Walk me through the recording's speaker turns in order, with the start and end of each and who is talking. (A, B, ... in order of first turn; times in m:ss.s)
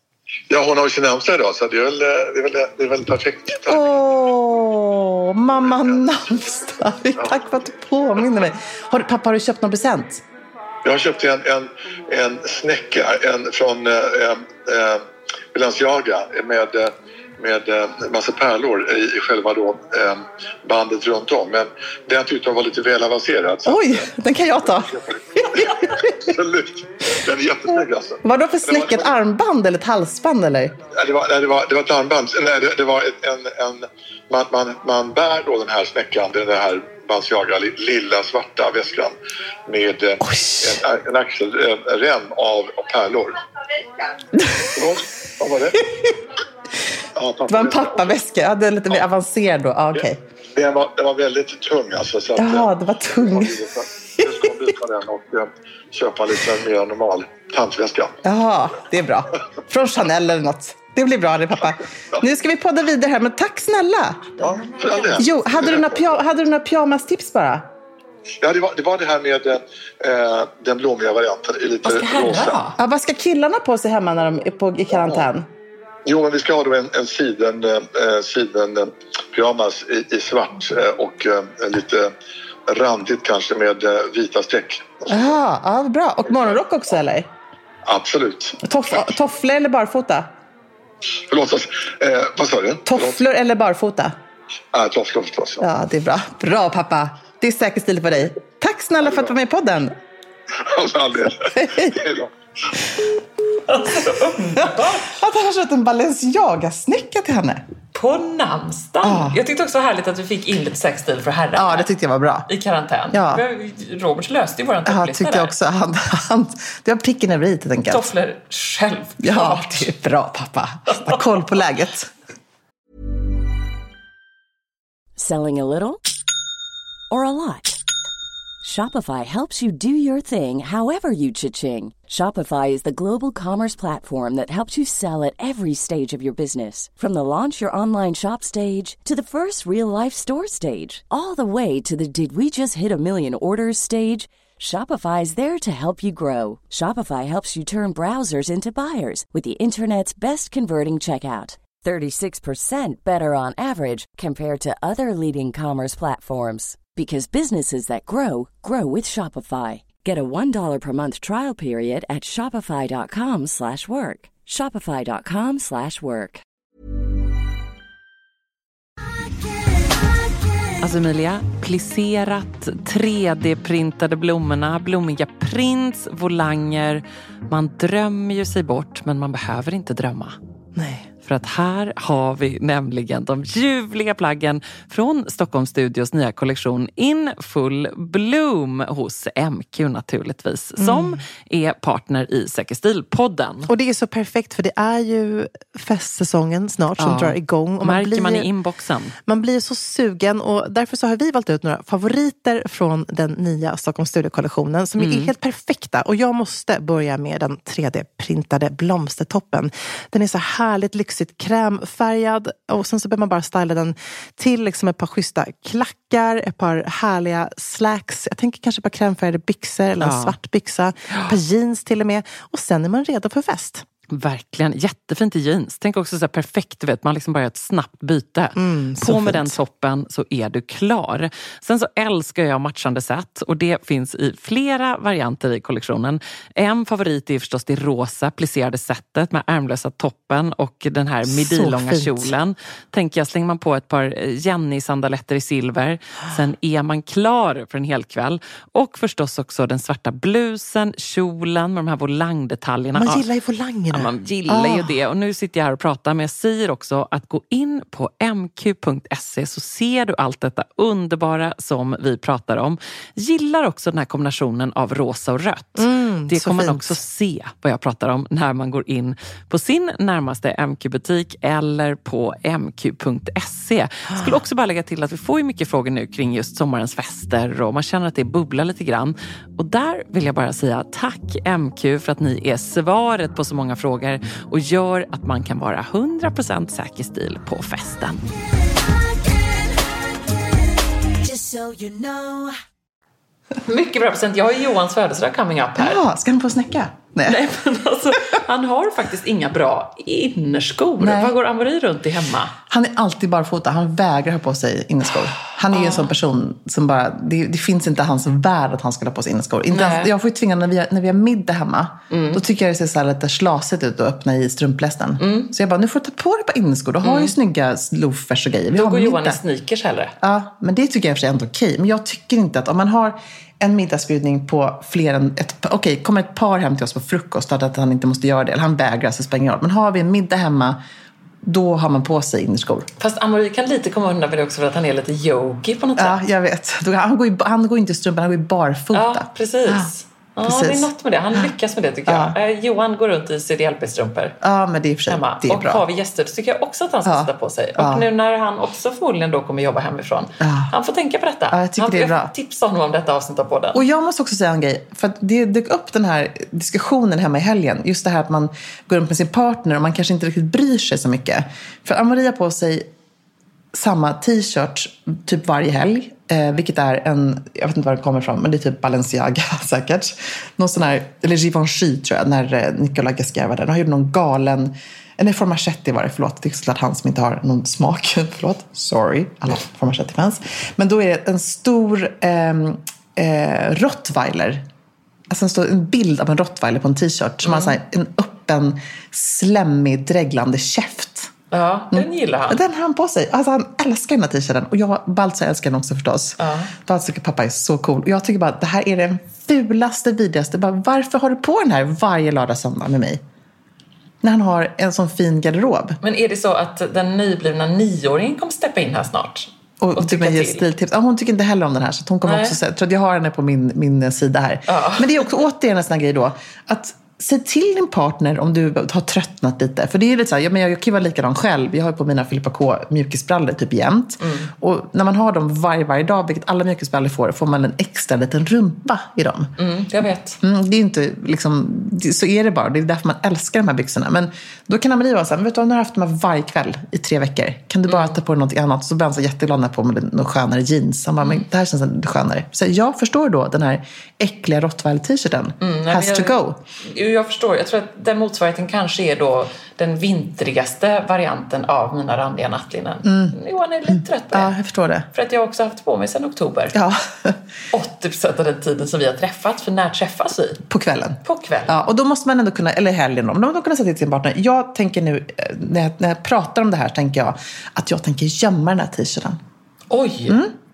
0:00.5-0:04.0 A
0:03.7-0:10.2 B
0:10.8-0:24.0 A
0:23.6-0:26.1 B
0:25.6-0:29.1 A
0:28.2-0:30.8 B
0:30.9-0:39.1 A
0:39.7-0:43.4 A
0:40.2-0:40.8 B
0:44.4-0:44.8 B
0:44.7-0:45.8 A
0:47.2-0:48.2 A
0:47.5-0:50.2 B
0:50.6-0:58.2 A
0:52.4-0:53.6 B
0:58.2-1:04.5 B
1:04.6-1:06.0 A
1:04.6-1:05.4 C
1:05.2-1:07.7 B
1:08.4-1:12.6 A
1:11.8-1:12.8 C
1:12.8-1:15.5 B
1:16.0-1:22.1 A
1:22.7-1:25.3 A
1:25.1-1:27.3 B
1:27.8-1:28.6 A
1:28.6-1:30.3 B
1:31.3-1:33.2 A
1:32.9-1:34.2 B
1:34.7-1:35.7 A
1:35.6-1:39.9 B
1:40.6-1:42.3 A
1:41.5-1:42.0 B
1:43.7-1:45.1 C
1:44.5-1:47.6 B
1:47.9-1:51.9 C
1:49.0-1:49.4 B
1:51.6-1:52.5 B
1:52.5-1:55.5 C
1:53.1-1:53.4 B
1:54.9-1:58.1 B
1:57.9-1:59.9 C
1:59.2-2:02.1 B
2:00.9-2:01.2 C
2:05.2-2:06.0 D
2:07.1-2:07.8 D
2:08.6-2:46.4 D
2:50.8-3:00.4 C
3:00.8-3:01.1 E
3:01.2-3:13.7 C
3:10.8-3:11.2 E
3:13.7-3:18.5 E
3:17.0-3:19.2 C
3:19.3-3:43.8 E
3:25.0-3:25.3 C
3:40.0-3:40.4 C
3:41.1-3:41.4 C
3:44.1-4:13.3 C
3:48.6-3:49.6 E
4:01.2-4:02.3 E
4:13.0-4:14.9 E
4:13.9-4:48.2 C
4:25.8-4:26.8 E
4:34.1-4:34.4 E
4:53.7-4:56.0 C
4:55.8-4:57.4 B
4:57.2-5:02.6 C
5:01.0-5:01.4 B
5:02.7-5:19.4 B
5:05.7-5:06.2 C
5:09.7-5:10.1 C
5:12.1-5:12.4 C
5:15.2-5:15.5 C
5:17.0-5:17.3 C
5:18.7-5:20.1 C
5:20.2-5:30.8 B
5:31.4-5:32.9 B
5:33.0-5:36.2 C
5:36.0-5:39.9 B
5:38.9-5:44.4 C
5:40.4-5:41.5 B
5:42.1-5:42.4 B
5:44.4-5:45.8 B
5:45.1-5:53.8 C
5:47.0-5:48.1 B
5:50.4-5:50.7 B
5:51.5-5:52.3 B
5:53.7-6:02.9 B
6:03.7-6:24.6 B
6:25.3-6:31.3 B
6:27.4-6:27.8 C
6:31.5-6:32.6 C
6:31.9-6:43.2 B
6:36.4-6:36.7 C
6:44.2-6:46.0 B
6:46.0-6:50.6 C
6:49.8-7:09.5 B
6:52.2-6:52.6 C
6:54.7-6:55.2 C
7:04.2-7:04.5 C
7:09.6-7:10.4 C
7:10.4-7:26.6 B
7:17.9-7:18.2 C
7:25.6-7:34.6 C
7:33.0-7:35.1 B
7:35.1-7:36.8 C
7:36.7-7:37.4 B
7:37.7-7:40.6 C
7:40.7-7:49.4 B
7:41.2-7:41.8 C
7:49.9-7:50.4 C
7:50.3-7:50.5 B